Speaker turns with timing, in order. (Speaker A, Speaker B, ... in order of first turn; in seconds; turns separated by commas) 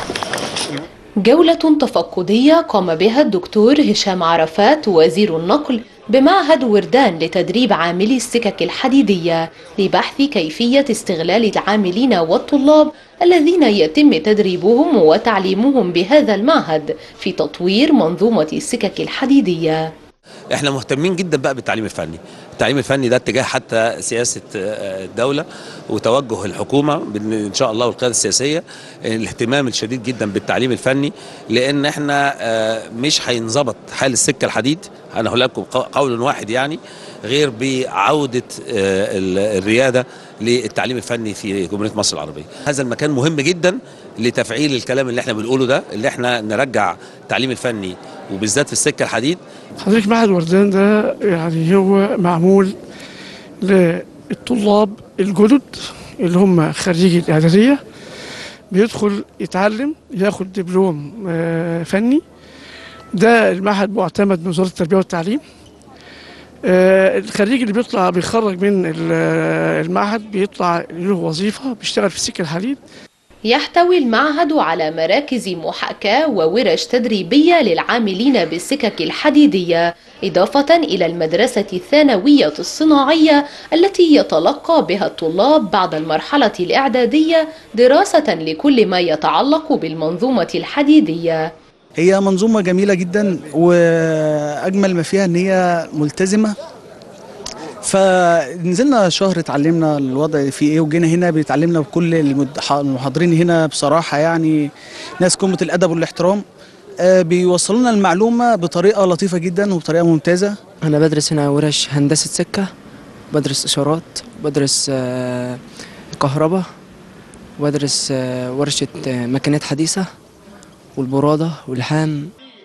Speaker A: 1.2-19.9, Speaker B: 20.5-49.4, Speaker C: 49.8-52.8, Speaker C: 53.6-57.8, Speaker C: 58.7-62.2, Speaker C: 63.1-65.4, Speaker C: 66.6-72.8, Speaker A: 73.5-91.5, Speaker D: 92.0-96.5, Speaker D: 97.8-106.4, Speaker D: 107.0-110.5, Speaker E: 110.8-112.7, Speaker E: 113.3-115.6, Speaker E: 116.1-116.7, Speaker E: 117.6-120.1, Speaker E: 121.0-122.3